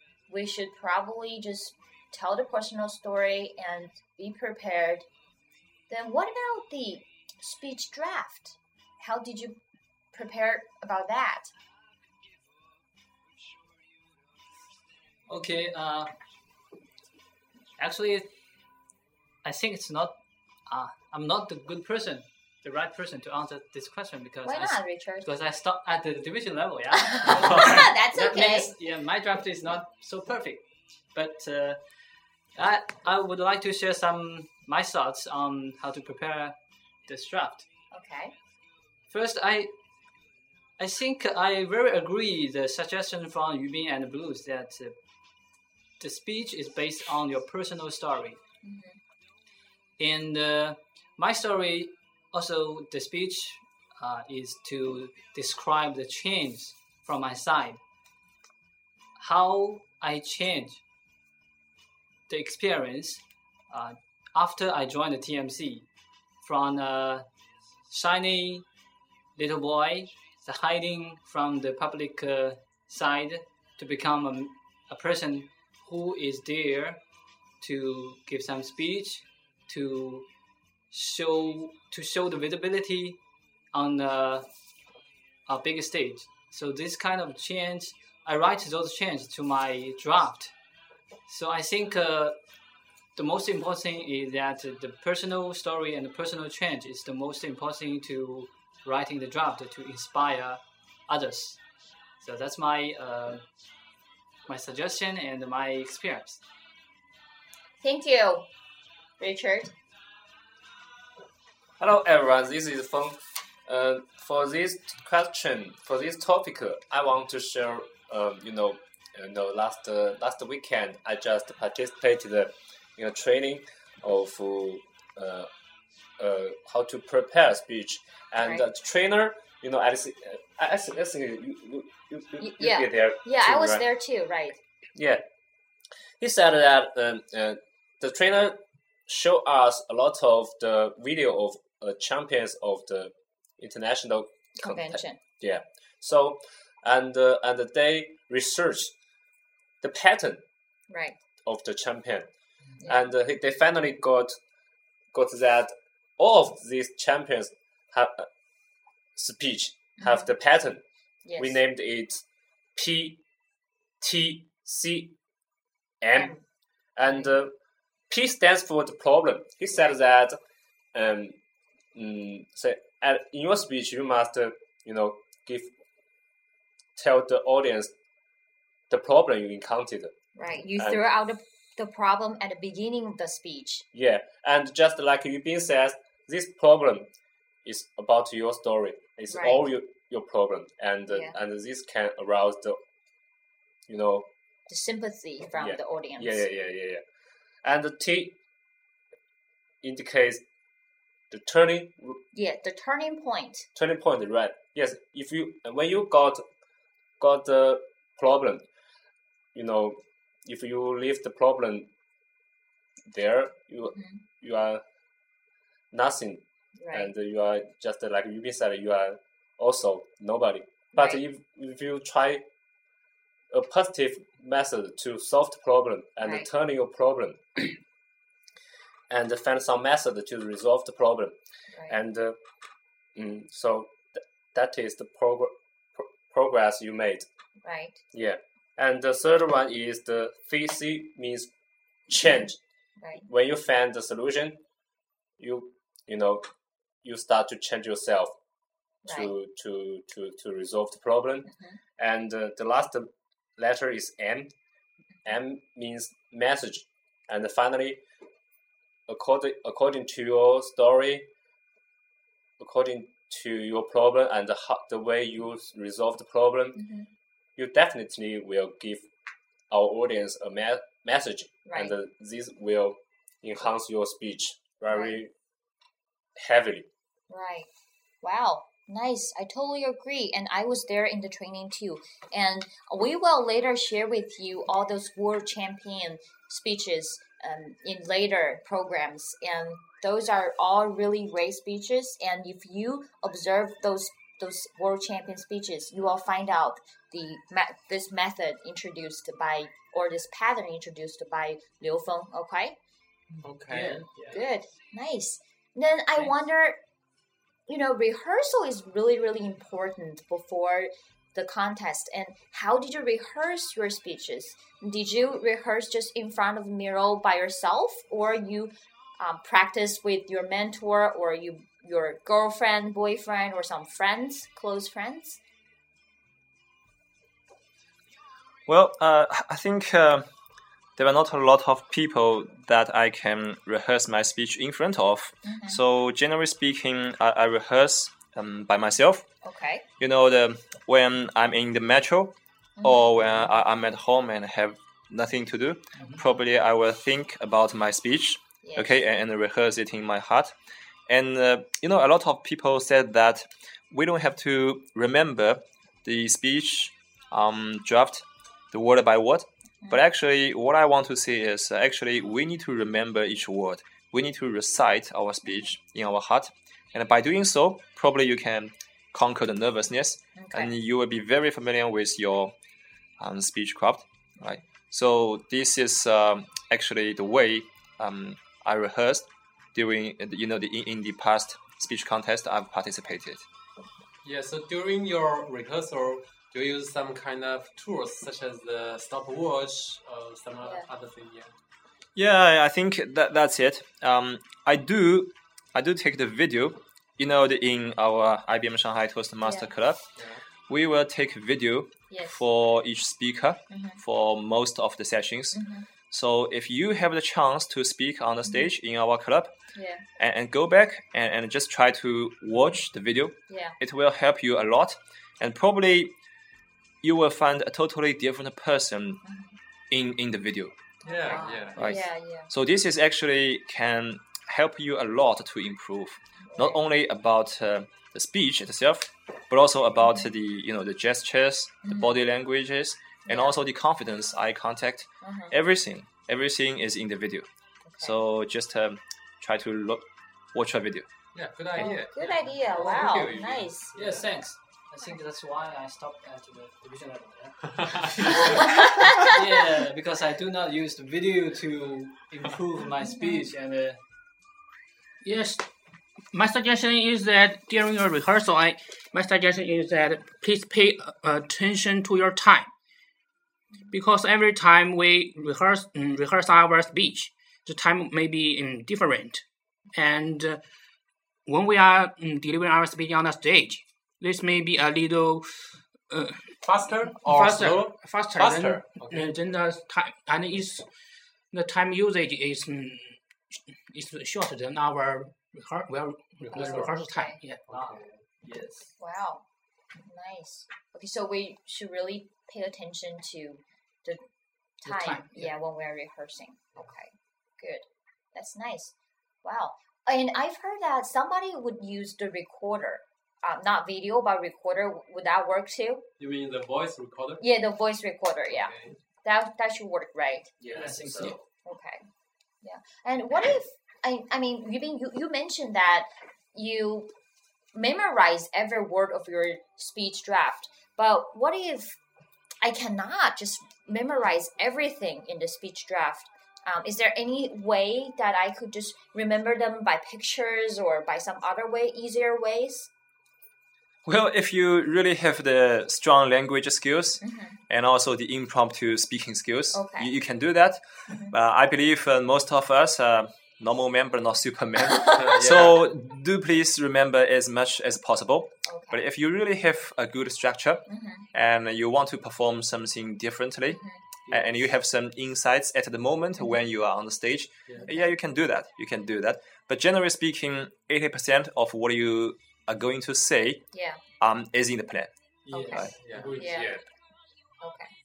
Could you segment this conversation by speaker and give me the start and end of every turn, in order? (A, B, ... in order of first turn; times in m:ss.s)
0:00.3-0:05.0 A
0:05.9-0:09.6 A
0:10.1-0:11.5 A
0:15.3-0:16.1 B
0:17.8-0:18.3 B
0:19.4-0:30.6 B
0:24.4-0:25.3 A
0:27.1-0:28.7 A
0:31.1-0:31.8 B
0:32.5-0:37.7 B
0:37.9-0:38.3 A
0:39.1-0:39.7 B
0:40.8-0:44.9 B
0:46.0-0:48.4 B
0:48.6-0:49.0 A
0:50.0-0:57.8 B
0:59.2-1:00.8 B
1:02.3-1:05.9 B
1:06.4-1:07.2 B
1:07.9-1:08.6 B
1:09.4-1:17.0 B
1:17.6-1:20.2 B
1:20.9-1:23.2 B
1:23.7-1:24.5 B
1:25.5-1:30.5 B
1:31.3-1:32.4 B
1:33.2-1:41.6 B
1:42.2-1:43.4 B
1:44.5-1:46.4 B
1:47.8-1:48.5 A
1:49.2-1:49.7 A
1:51.8-2:05.5 C
2:06.2-2:13.8 C
2:12.4-2:14.6 A
2:14.9-2:15.2 C
2:16.2-2:28.9 C
2:24.6-2:25.2 A
2:29.8-2:30.4 C
2:30.9-2:31.2 A
2:31.4-2:32.3 C
2:32.8-2:34.4 C
2:35.1-2:38.3 C
2:39.2-2:40.8 C
2:40.0-2:40.3 A
2:41.2-2:41.6 A
2:41.4-2:42.2 C
2:42.7-2:43.2 C
2:44.0-2:45.1 C
2:46.0-2:46.3 C
2:46.1-2:46.4 A
2:47.0-2:47.5 C
2:47.0-2:47.3 A
2:48.1-2:50.4 C
2:50.9-2:51.4 C
2:51.9-2:55.7 C
2:57.0-2:57.9 C
2:58.9-3:00.2 C
3:00.4-3:03.8 A
3:00.8-3:01.0 C
3:03.9-3:07.1 C
3:07.6-3:12.8 C
3:09.3-3:09.6 A
3:11.1-3:11.3 A
3:13.9-3:14.3 C
3:14.7-3:16.4 A
3:15.6-3:17.0 C
3:17.6-3:18.4 C
3:19.8-3:20.4 C
3:21.3-3:22.2 C
3:22.3-3:23.7 A
3:23.7-3:26.4 C
3:27.2-3:28.6 C
3:29.5-3:31.9 C
3:33.1-3:34.8 C
3:33.9-3:34.2 A
3:35.9-3:42.4 C
3:36.8-3:37.1 A
3:40.9-3:41.2 A
3:43.5-3:47.8 C
3:46.2-3:46.5 A
3:49.1-3:51.4 C
3:51.9-3:52.4 C
3:53.1-3:57.3 C
3:57.6-3:58.0 A
3:58.1-4:01.5 C
4:02.1-4:02.6 C
4:03.0-4:03.2 A
4:03.2-4:04.6 C
4:05.4-4:06.5 C
4:07.0-4:08.3 C
4:09.0-4:09.3 A
4:09.1-4:14.5 C
4:11.4-4:11.8 A
4:15.2-4:18.0 C
4:19.1-4:21.3 C
4:22.6-4:26.8 C
4:26.8-4:27.1 A
4:27.6-4:29.1 C
4:29.7-4:35.3 C
4:31.7-4:31.9 A
4:34.9-4:35.2 A
4:36.4-4:36.9 C
4:37.3-4:37.7 A
4:38.2-5:02.8 A
5:03.3-5:04.3 B
5:03.4-5:04.4 D
5:04.3-5:06.8 A
5:07.7-5:25.4 A
5:28.7-5:30.3 E
5:31.0-5:39.2 E
5:35.4-5:35.8 A
5:39.4-5:39.8 A
5:40.0-5:50.5 E
5:42.8-5:43.1 A
5:48.6-5:49.0 A
5:51.1-6:12.5 E
6:10.4-6:10.7 A
6:13.2-6:23.4 E
6:24.2-6:31.5 D
6:30.6-6:30.9 A
6:32.1-6:40.0 E
6:39.4-6:39.7 A
6:40.2-6:40.4 D
6:40.7-6:45.6 E
6:42.1-6:42.4 A
6:43.7-6:44.0 A
6:45.5-6:45.8 A
6:46.1-6:49.5 E
6:49.7-6:50.0 A
6:50.2-6:56.1 E
6:53.5-6:53.8 A
6:57.0-6:59.2 E
6:59.2-6:59.6 A
6:59.9-7:00.7 E
7:01.0-7:01.9 D
7:01.0-7:02.5 A
7:01.8-7:17.4 E
7:06.4-7:06.8 A
7:10.0-7:10.3 A
7:11.8-7:12.2 A
7:13.3-7:13.6 A
7:15.2-7:15.5 A
7:17.8-7:18.2 A
7:18.0-7:21.1 E
7:21.3-7:24.3 D
7:21.7-7:23.9 A
7:24.0-7:34.0 B
7:27.7-7:28.5 D
7:28.6-7:29.3 A
7:33.1-7:33.4 A
7:35.2-7:35.7 F
7:36.3-7:42.7 F
7:43.9-7:50.6 F
7:51.4-7:56.5 F
7:56.6-7:59.3 D
7:57.2-8:00.8 F
8:01.5-8:03.2 F
8:03.9-8:07.6 F
8:06.4-8:06.9 D
8:06.5-8:07.4 A
8:07.7-8:08.2 D
8:07.7-8:08.9 B
8:09.0-8:09.4 A
8:10.0-8:14.2 A
8:14.8-8:26.0 A
8:14.8-8:15.5 F
8:26.2-8:27.4 D
8:27.4-8:30.5 A
8:28.5-8:29.0 D
8:30.6-8:31.4 C
8:30.7-8:31.4 B
8:31.6-8:32.0 A
8:32.6-8:37.1 A
8:37.7-8:42.0 A
8:42.6-8:52.9 A
8:54.0-9:23.6 E
8:57.2-8:57.6 A
8:59.7-9:00.1 A
9:04.8-9:05.3 A
9:05.1-9:05.8 D
9:08.6-9:09.0 A
9:10.9-9:11.2 A
9:13.7-9:14.0 A
9:17.8-9:18.1 A
9:23.7-9:24.0 A
9:24.2-9:25.1 E
9:25.5-9:26.6 D
9:25.5-9:25.8 A
9:25.5-9:26.3 B
9:25.7-9:26.0 E
9:26.3-9:26.8 C
9:26.4-9:26.7 A
9:27.6-9:27.9 A